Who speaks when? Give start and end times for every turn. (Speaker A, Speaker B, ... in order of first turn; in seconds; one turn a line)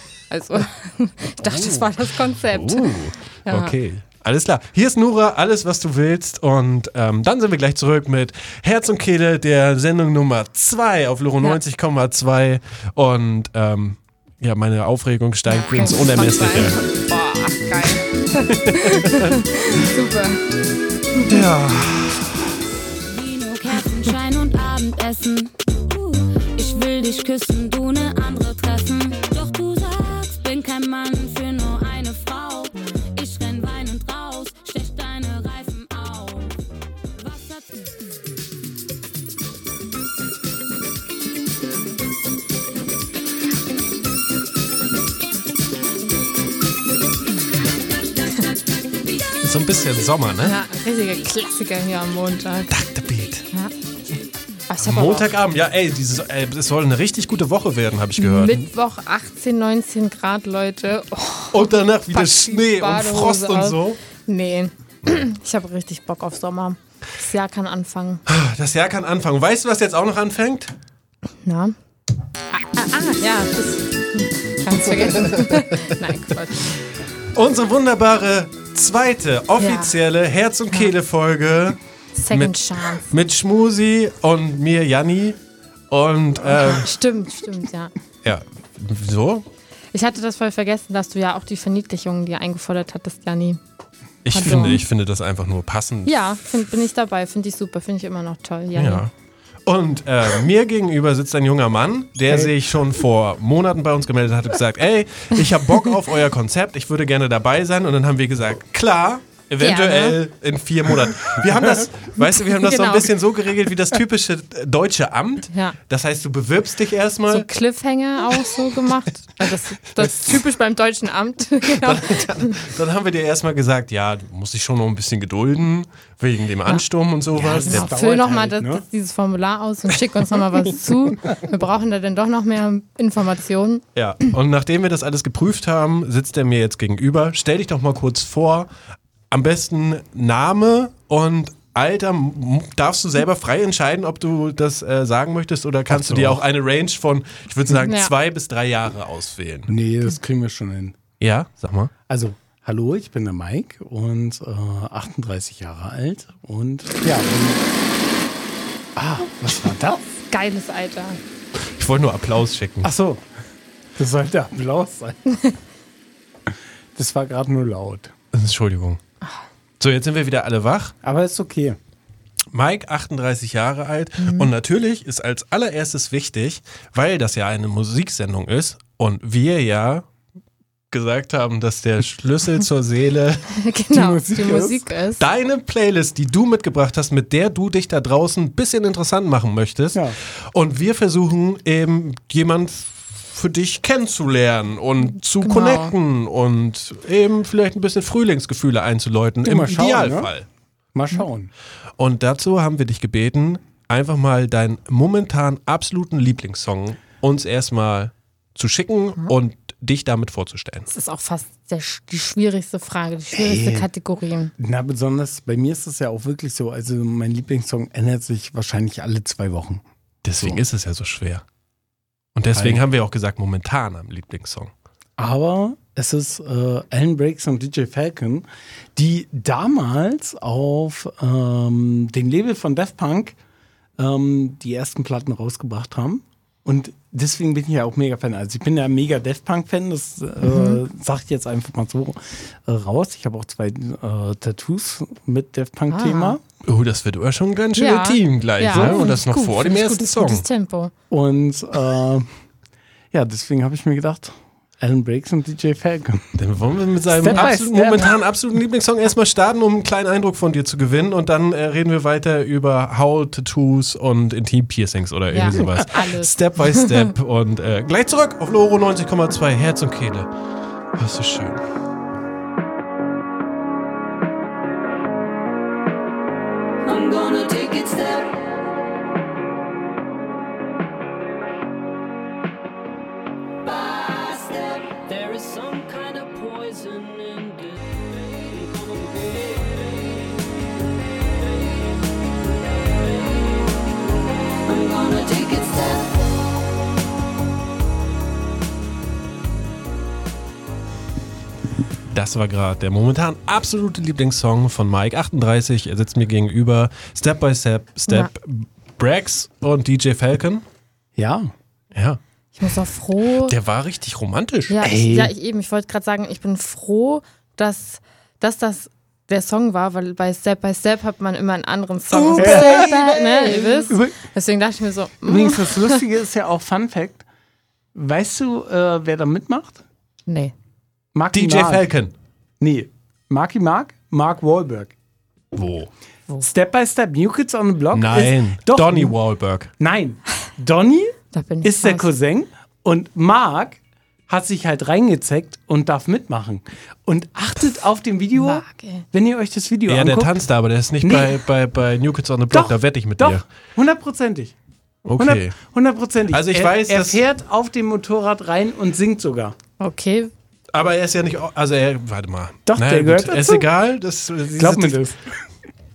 Speaker A: 0.3-3.8
Speaker B: 1.4-16.8
Speaker A: 15.5-20.4
Speaker B: 18.5-19.4
Speaker A: 21.1-21.4
Speaker B: 21.2-22.5
Speaker C: 23.0-36.6
Speaker C: 37.2-38.0
Speaker B: 49.4-50.5
Speaker A: 50.4-52.8
Speaker B: 52.7-53.5
Speaker A: 54.7-55.3
Speaker B: 54.8-58.7
Speaker A: 58.2-68.2
Speaker B: 61.5-64.0
Speaker B: 68.3-70.7
Speaker A: 71.5-71.8
Speaker A: 72.6-76.7
Speaker B: 74.9-76.1
Speaker B: 77.3-81.8
Speaker A: 79.6-80.0
Speaker A: 82.2-83.2
Speaker B: 82.3-85.4
Speaker B: 85.9-86.9
Speaker A: 86.5-87.9
Speaker B: 88.2-89.5
Speaker A: 89.9-93.6
Speaker B: 94.2-96.2
Speaker A: 94.3-94.8
Speaker A: 96.0-99.0
Speaker B: 98.8-99.1
Speaker B: 99.7-117.5
Speaker A: 109.6-110.2
Speaker A: 112.6-113.1
Speaker A: 115.5-115.8
Speaker A: 117.3-122.5
Speaker B: 121.8-127.9
Speaker D: 127.3-128.8
Speaker A: 127.6-133.8
Speaker B: 133.9-138.7
Speaker B: 139.3-149.7
Speaker D: 145.9-146.4
Speaker A: 147.7-148.1
Speaker D: 149.7-151.0
Speaker B: 151.2-151.9
Speaker D: 152.1-157.7
Speaker D: 159.0-160.1
Speaker A: 160.2-161.2
Speaker B: 161.8-162.9
Speaker D: 162.8-163.2
Speaker D: 164.0-165.2
Speaker D: 167.0-168.1
Speaker B: 168.3-169.0
Speaker B: 169.8-170.9
Speaker D: 171.0-171.8
Speaker B: 172.5-180.1
Speaker A: 174.2-174.5
Speaker B: 180.9-183.5
Speaker A: 183.5-185.2
Speaker D: 183.9-184.8
Speaker B: 185.2-200.5
Speaker A: 195.4-195.9
Speaker D: 199.4-200.3
Speaker D: 200.9-201.5
Speaker B: 202.0-210.9
Speaker A: 210.9-214.5
Speaker D: 213.3-213.9
Speaker D: 214.6-219.8
Speaker B: 220.2-221.4
Speaker B: 222.3-224.7
Speaker D: 222.5-222.8
Speaker D: 225.2-233.4
Speaker D: 234.0-246.4
Speaker A: 240.4-240.8
Speaker A: 245.9-246.4
Speaker B: 246.7-250.4
Speaker A: 247.8-250.9
Speaker D: 248.7-249.1
Speaker D: 251.1-252.3
Speaker D: 253.1-256.3
Speaker B: 256.4-270.3
Speaker D: 257.1-258.1
Speaker A: 257.3-258.1
Speaker A: 265.3-267.1
Speaker B: 271.0-271.6
Speaker E: 276.9-278.3
Speaker C: 277.2-277.8
Speaker E: 283.7-285.0
Speaker C: 285.1-287.8
Speaker C: 288.3-289.9
Speaker E: 294.6-296.2
Speaker B: 302.1-310.6
Speaker D: 311.2-311.5
Speaker B: 311.9-312.2
Speaker A: 312.6-313.6
Speaker B: 313.5-314.8
Speaker A: 314.7-326.0
Speaker D: 314.8-315.3
Speaker B: 322.1-323.0
Speaker D: 322.4-324.2
Speaker D: 325.2-327.2
Speaker D: 327.9-329.8
Speaker A: 330.3-330.5
Speaker D: 331.1-331.9
Speaker B: 331.3-332.1
Speaker D: 332.6-334.9
Speaker B: 335.5-335.9
Speaker D: 336.4-339.1
Speaker B: 337.9-339.7
Speaker D: 339.8-350.4
Speaker A: 341.3-342.1
Speaker A: 348.4-349.1
Speaker B: 349.9-353.4
Speaker D: 351.0-351.4
Speaker D: 352.5-354.6
Speaker B: 355.1-355.5
Speaker D: 355.2-359.6
Speaker B: 356.3-357.2
Speaker A: 359.8-360.3
Speaker B: 360.7-365.0
Speaker D: 362.7-363.7
Speaker D: 364.5-365.2